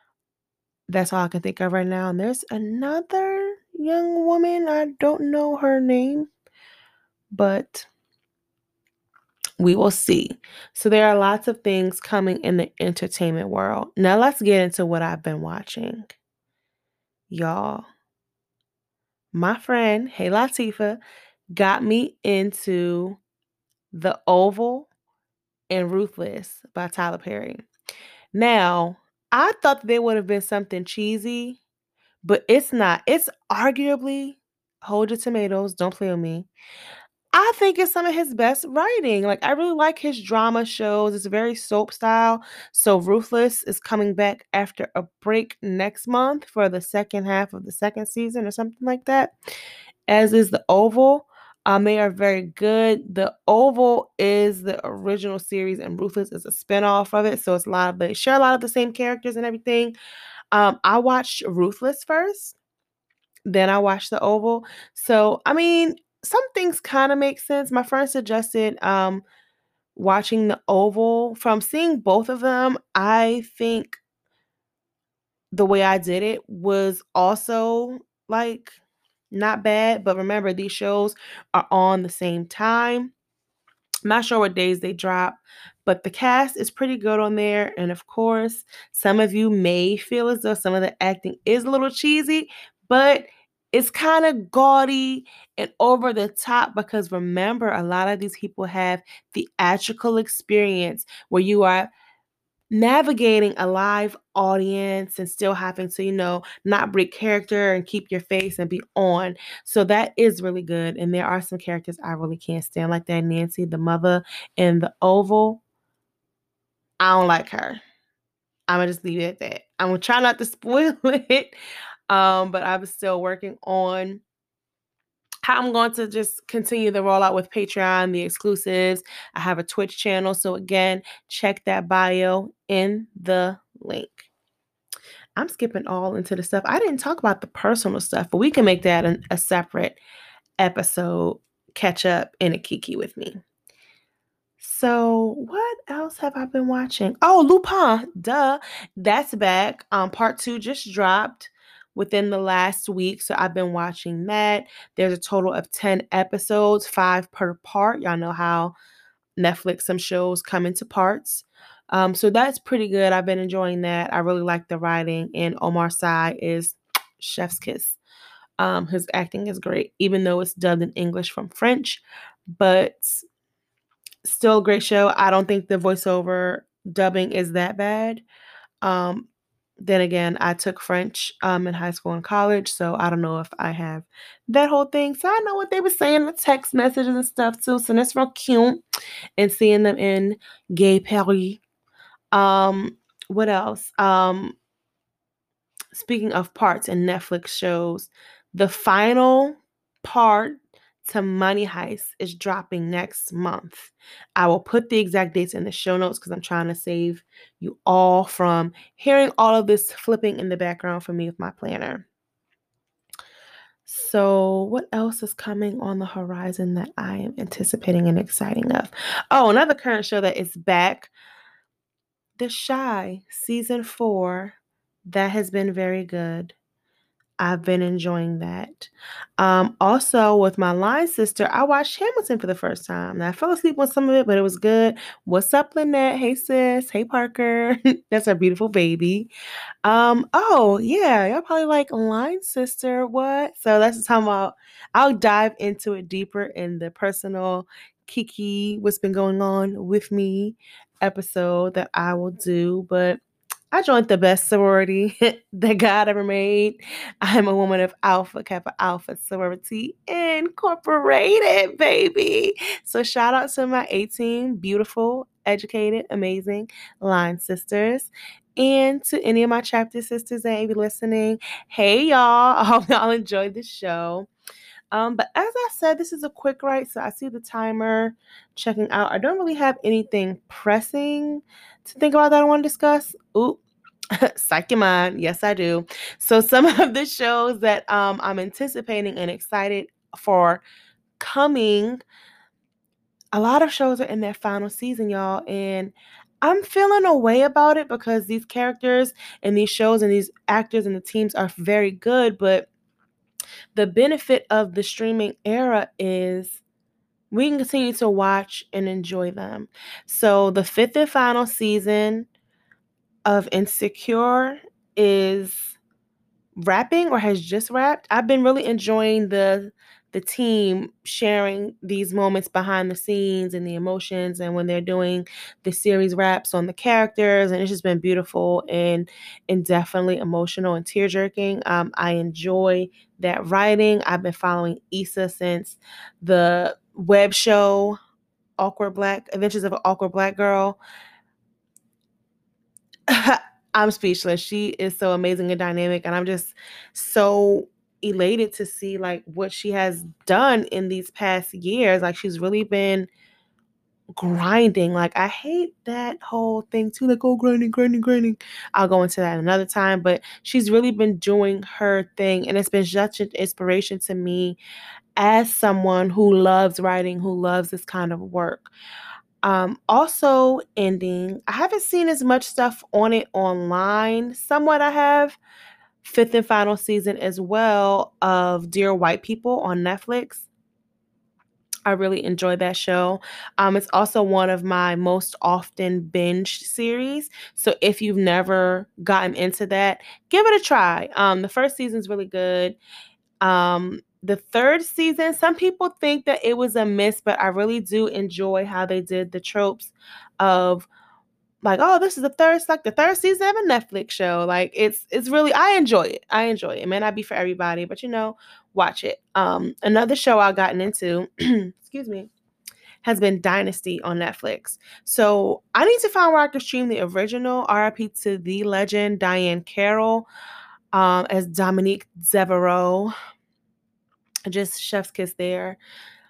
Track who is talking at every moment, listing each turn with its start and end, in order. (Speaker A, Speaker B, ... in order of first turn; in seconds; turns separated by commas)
Speaker A: 0.9-6.3, Speaker A: 7.3-7.9, Speaker A: 9.6-16.2, Speaker A: 17.3-17.9, Speaker A: 19.3-21.0, Speaker A: 21.5-23.2, Speaker A: 23.9-24.9, Speaker A: 25.7-27.6, Speaker A: 28.3-31.6, Speaker A: 32.2-36.5, Speaker A: 37.3-49.3, Speaker A: 50.1-60.0, Speaker A: 60.5-62.6, Speaker A: 63.5-69.2, Speaker A: 70.0-74.0, Speaker A: 75.5-78.8, Speaker A: 79.3-83.1, Speaker A: 84.0-101.9, Speaker A: 102.7-115.6, Speaker A: 117.0-117.8, Speaker A: 118.7-121.5, Speaker A: 122.1-124.2, Speaker A: 125.4-134.3, Speaker A: 135.4-140.0, Speaker A: 140.6-143.4, Speaker A: 144.6-158.8, Speaker A: 159.4-168.0, Speaker A: 168.6-172.0, Speaker A: 172.6-173.2, Speaker A: 174.2-178.2, Speaker A: 178.8-179.3, Speaker A: 179.8-188.8, Speaker A: 189.4-191.6, Speaker A: 192.3-194.6, Speaker A: 195.9-212.1, Speaker A: 213.9-221.1, Speaker A: 222.4-224.6, Speaker A: 225.1-226.6, Speaker A: 227.4-239.3, Speaker A: 239.8-253.2, Speaker A: 253.7-274.3, Speaker A: 274.9-283.6, Speaker A: 284.2-290.6, Speaker A: 291.2-292.0, Speaker A: 293.3-302.7, Speaker A: 303.8-306.6, Speaker A: 307.3-312.3, Speaker A: 313.3-315.8, Speaker A: 316.6-338.0, Speaker A: 338.6-340.8, Speaker A: 343.1-353.1, Speaker A: 354.2-364.6, Speaker A: 365.2-368.7, Speaker A: 369.4-375.4, Speaker A: 376.0-380.5, Speaker A: 381.9-392.8, Speaker A: 393.4-400.9, Speaker A: 401.6-412.3, Speaker A: 413.0-420.3, Speaker A: 420.9-423.1, Speaker A: 424.5-425.8